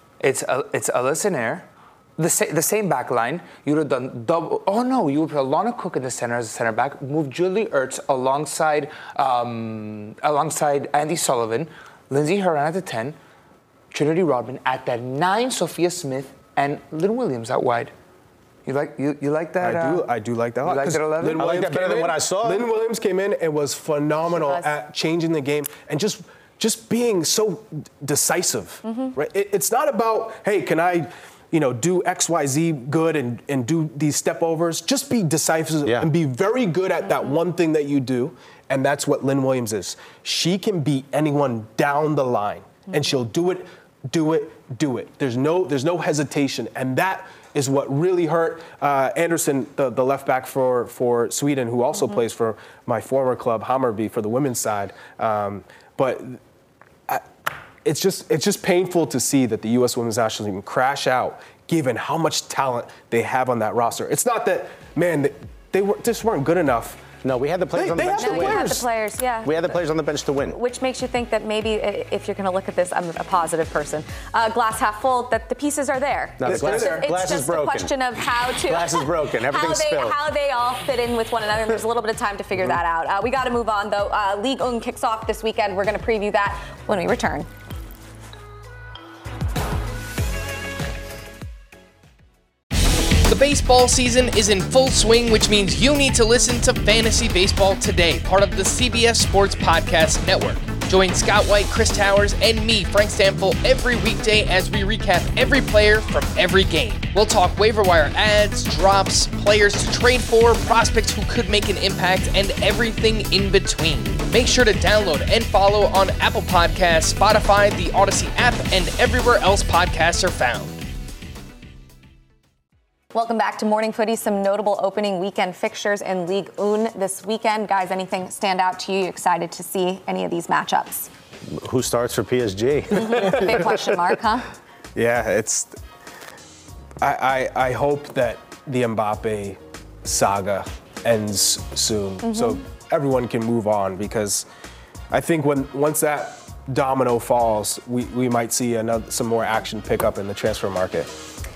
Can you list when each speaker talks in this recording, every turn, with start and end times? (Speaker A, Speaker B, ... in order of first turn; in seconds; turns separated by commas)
Speaker A: 0.2-1.6, Speaker A: 2.2-13.2, Speaker A: 13.9-17.9, Speaker A: 18.6-20.1, Speaker B: 19.6-56.4, Speaker A: 20.6-21.5, Speaker C: 21.4-22.7, Speaker D: 24.3-24.7, Speaker D: 28.9-29.1, Speaker B: 57.8-67.0, Speaker C: 67.2-68.8, Speaker B: 67.7-68.8, Speaker D: 68.0-69.7, Speaker C: 69.4-70.6, Speaker D: 70.5-87.5, Speaker C: 76.4-77.9, Speaker B: 76.4-77.1, Speaker C: 78.6-80.2, Speaker E: 93.2-120.8, Speaker D: 123.1-131.1, Speaker C: 131.5-133.9, Speaker D: 132.9-134.5, Speaker B: 134.9-135.8, Speaker B: 137.0-144.4, Speaker D: 142.3-142.6, Speaker B: 145.1-151.1